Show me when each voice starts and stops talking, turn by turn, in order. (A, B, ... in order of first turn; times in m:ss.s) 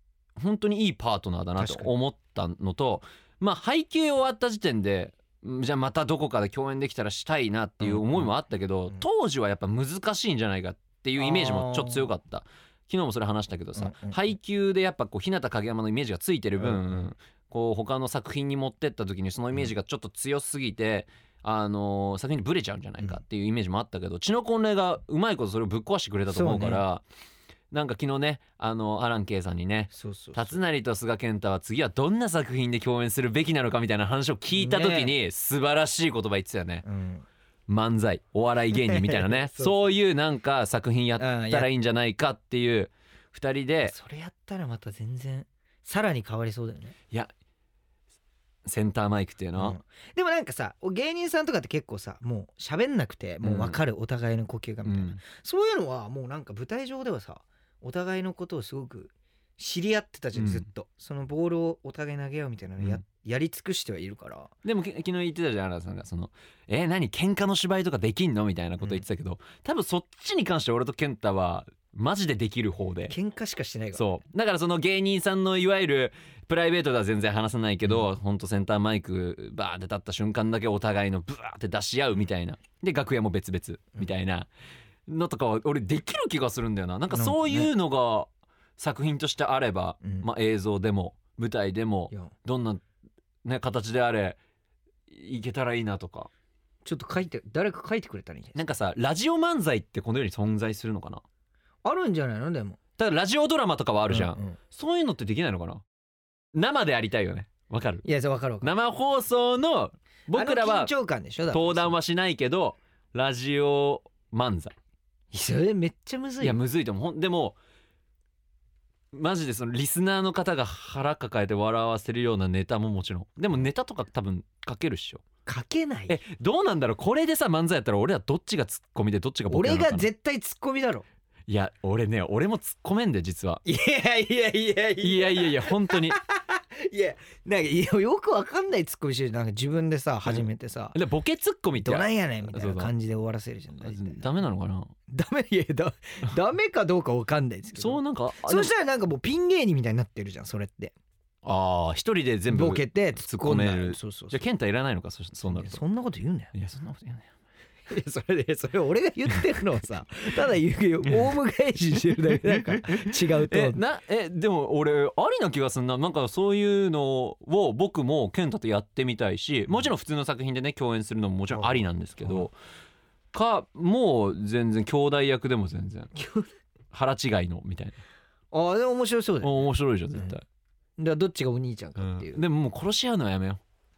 0:00.4-0:27.0 A
0:01.6-0:01.9 B
0:07.8-0:08.3 B
0:11.2-0:12.1 B
0:13.8-0:14.3 B
0:16.6-0:17.0 B
0:26.3-0:26.8 B
0:27.7-0:36.8 A
0:29.9-0:30.6 B
0:34.6-0:35.1 B
0:36.8-0:37.2 B
0:37.7-0:43.9 A
0:38.7-0:39.8 B
0:41.2-0:41.7 B
0:43.8-0:47.0 B
0:48.6-0:49.8 A
0:49.6-1:04.5 B
0:53.4-0:53.8 A
0:54.8-0:55.2 A
1:00.3-1:00.7 A
1:04.6-1:13.2 A
1:13.1-1:14.2 B
1:13.9-1:24.5 A
1:25.1-1:32.8 A
1:27.1-1:27.7 B
1:33.4-1:34.4 A
1:35.1-1:36.3 A
1:36.8-1:38.6 B
1:38.6-1:41.2 A
1:41.8-1:42.8 B
1:43.0-1:45.8 A
1:44.1-1:44.6 B
1:46.5-1:48.0 A
1:48.0-1:48.7 B
1:48.6-1:50.9 A
1:50.3-1:51.9 B
1:51.5-1:54.7 A
1:55.3-1:56.6 B
1:56.4-1:57.6 A
1:59.1-2:05.2 A
2:05.4-2:06.2 B
2:06.1-2:10.1 A
2:09.5-2:11.0 B
2:11.5-2:13.6 A
2:13.6-2:21.0 B
2:15.0-2:16.2 A
2:20.3-2:22.9 A
2:21.8-2:24.2 B
2:23.8-2:24.9 A
2:25.1-2:30.9 B
2:27.7-2:28.7 A
2:31.4-2:35.8 A
2:32.5-2:34.4 B
2:35.4-2:36.5 B
2:36.5-2:37.3 A
2:37.9-2:43.8 B
2:42.3-2:52.5 A
2:51.5-2:52.5 B
2:53.3-2:56.1 A
2:56.1-2:56.5 B
2:56.9-2:58.0 A
2:58.5-3:00.3 B
2:59.4-3:00.4 A
3:01.0-3:02.4 B
3:02.0-3:03.6 A